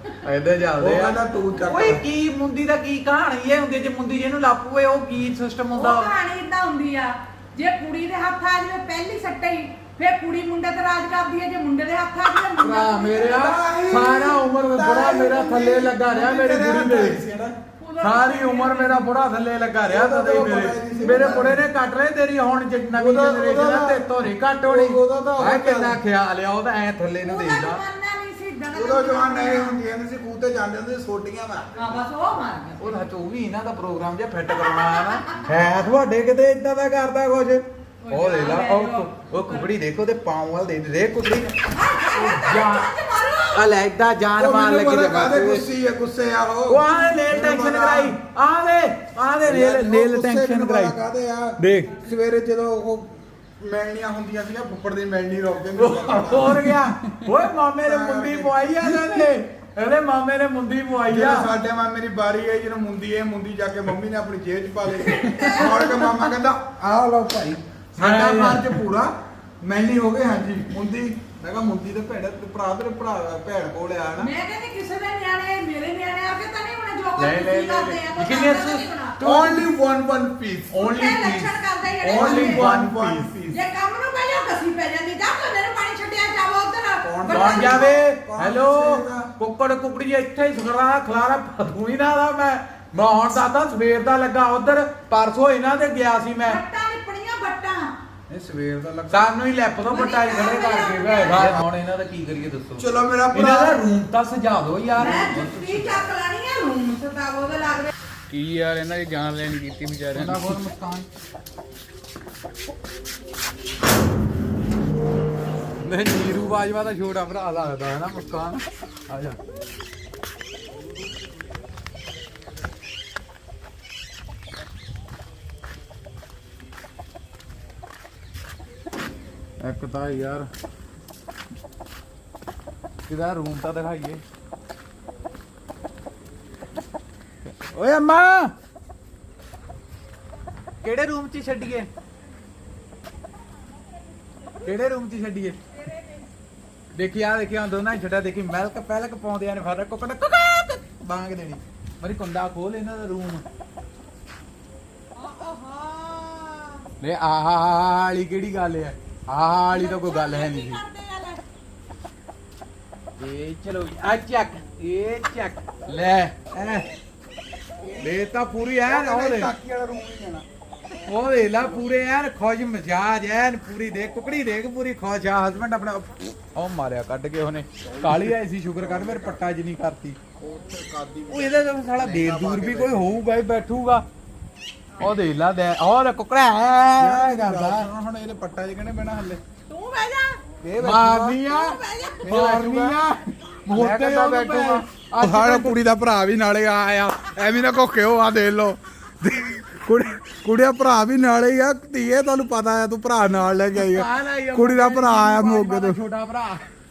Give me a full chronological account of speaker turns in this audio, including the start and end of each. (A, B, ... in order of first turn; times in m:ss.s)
0:00.2-0:06.1 A
0:00.8-0:02.0 B
0:05.7-0:13.5 C
0:12.6-0:17.2 A
0:13.3-0:17.6 B
0:17.8-0:19.2 C
0:18.0-0:27.8 A
0:19.9-0:21.6 B
0:22.9-0:24.1 B
0:24.6-0:26.0 B
0:27.2-0:29.8 C
0:28.7-0:32.0 B
0:31.7-0:33.0 C
0:32.8-0:41.5 A
0:34.4-0:35.4 C
0:38.0-0:39.7 C
0:41.7-0:43.6 C
0:42.1-0:42.9 A
0:43.5-0:45.7 A
0:44.4-0:48.2 B
0:46.7-0:51.0 A
0:49.4-0:56.9 B
0:51.6-0:52.0 A
0:55.8-1:01.5 A
0:57.8-0:59.1 B
1:01.1-1:14.3 B
1:05.0-1:06.2 C
1:07.9-1:08.8 A
1:14.2-1:19.2 C
1:17.2-1:19.7 A
1:19.2-1:20.8 B
1:20.7-1:23.4 A
1:20.8-1:22.6 C
1:22.1-1:23.6 B
1:23.5-1:28.0 C
1:27.0-1:29.3 B
1:27.3-1:36.6 A
1:36.4-1:37.9 C
1:38.3-1:39.3 B
1:39.1-1:46.0 A
1:39.8-1:41.4 C
1:41.4-1:41.6 B
1:42.8-1:43.8 B
1:45.0-1:47.9 C
1:48.3-1:50.5 D
1:50.1-1:51.0 A
1:55.8-1:59.4 A
2:09.6-2:10.5 A
2:13.1-2:14.2 A
2:17.5-2:18.5 A
2:20.8-2:21.9 A
2:24.6-2:25.6 A
2:25.8-2:26.3 C
2:26.9-2:33.4 A
2:35.2-2:36.8 C
2:37.0-2:40.8 A
2:39.7-2:41.4 C
2:43.2-2:46.9 A
2:48.0-2:49.5 A
2:48.8-2:50.4 B
2:51.1-3:00.2 A
2:57.9-2:59.4 B
3:00.4-3:03.2 B
3:01.3-3:04.0 A
3:05.0-3:07.9 A
3:07.0-3:09.4 B
3:09.7-3:10.4 C
3:10.6-3:11.4 B
3:10.8-3:15.7 A
3:11.4-3:12.4 C
3:12.2-3:13.0 B
3:13.7-3:26.0 B
3:23.8-3:26.6 A